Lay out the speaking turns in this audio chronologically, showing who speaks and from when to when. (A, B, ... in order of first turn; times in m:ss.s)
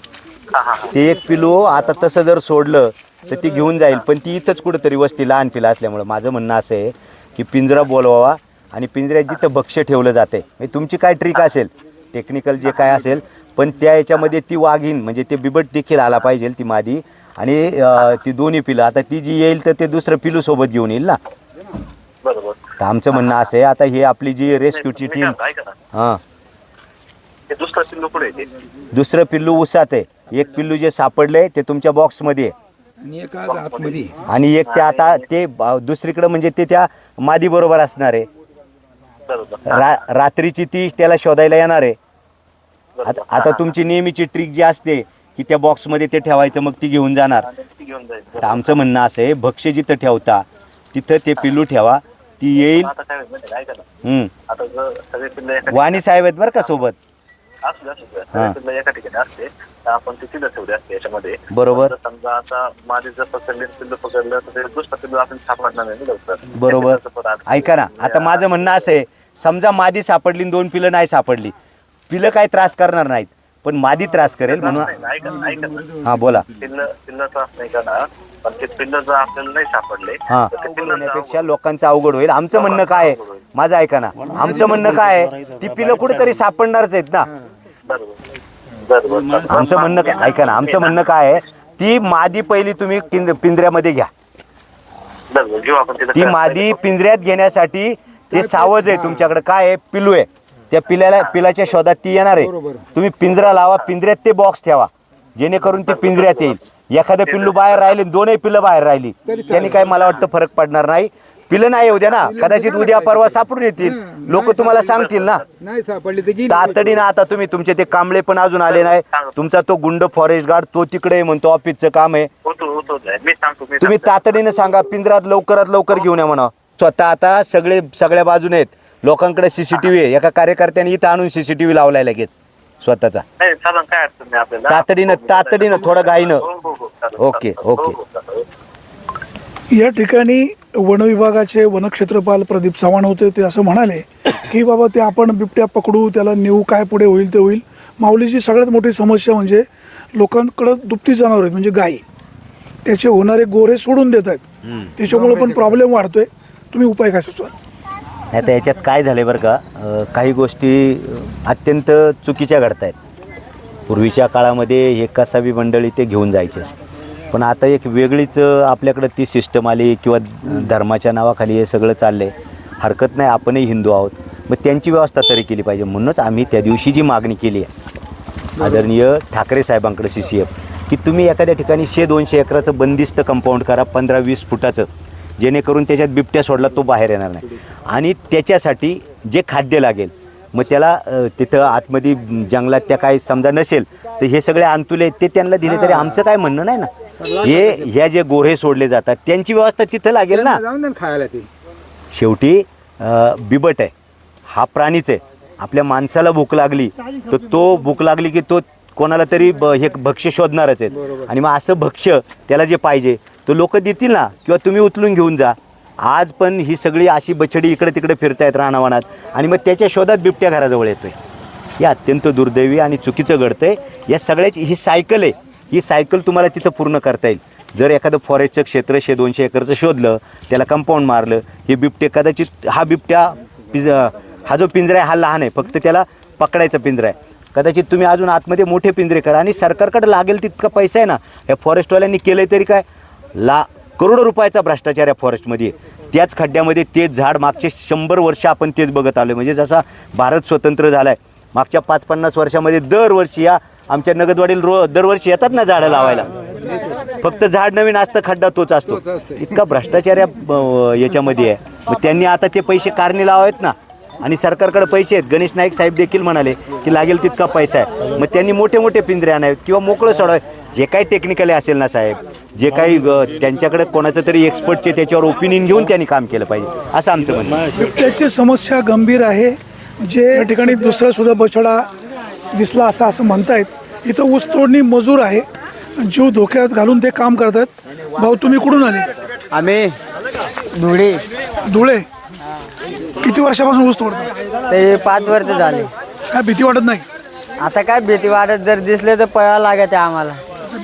0:00.5-0:00.9 A
0:00.9-0:21.2 B
0:22.2-0:23.5 A
0:22.8-0:25.4 B
0:24.7-0:25.8 A
0:25.9-0:26.2 B
0:27.5-0:28.5 A
0:28.9-0:32.5 B
0:33.0-0:34.2 C
0:33.4-0:34.1 A
0:34.3-0:38.3 B
0:34.6-0:35.3 A
0:39.3-0:39.9 A
0:39.7-0:42.0 B
0:43.0-0:43.7 A
0:43.0-0:47.5 B
0:47.4-0:48.8 A
0:48.4-0:52.9 B
0:52.6-0:53.9 A
0:54.0-0:54.3 B
0:54.5-0:56.1 A
0:55.7-0:57.0 B
0:57.6-1:08.9 A
1:01.5-1:01.9 B
1:06.5-1:11.5 B
1:12.1-1:15.0 B
1:14.5-1:21.5 A
1:16.0-1:16.5 B
1:20.3-1:27.3 B
1:22.5-1:23.4 A
1:27.9-1:28.2 A
1:28.9-1:31.0 A
1:29.5-1:34.1 B
1:35.3-1:36.9 A
1:36.1-1:55.4 B
1:38.4-1:38.9 C
1:45.8-1:46.6 A
1:47.2-1:48.0 A
1:49.5-1:49.8 C
1:52.5-1:53.0 C
1:54.4-1:54.6 C
1:54.9-1:55.4 A
1:55.6-1:56.6 C
1:56.5-2:02.3 B
1:58.7-1:59.4 A
2:02.4-2:04.5 A
2:03.8-2:13.2 B
2:13.4-2:18.4 A
2:14.7-2:16.4 B
2:17.2-2:18.0 B
2:19.7-2:32.0 D
2:32.8-2:34.4 D
2:34.6-2:34.9 B
2:35.0-2:37.5 D
2:35.1-2:35.7 C
2:38.3-2:43.0 B
2:43.9-2:46.7 B
2:47.3-2:57.7 B
2:58.6-3:04.9 B
3:05.4-3:20.6 B
3:20.3-3:21.5 C
3:22.1-3:23.9 B
3:24.5-3:41.2 B
3:41.8-4:16.3 B
4:17.2-4:37.7 B
4:37.8-4:41.8 D
4:42.5-4:45.5 D
4:46.0-4:49.1 D
4:49.5-4:50.0 E
4:50.8-4:51.2 E
4:51.7-4:52.1 D
4:53.2-4:54.3 D
4:54.7-4:55.9 E
4:56.3-4:57.1 D
4:57.6-5:00.4 E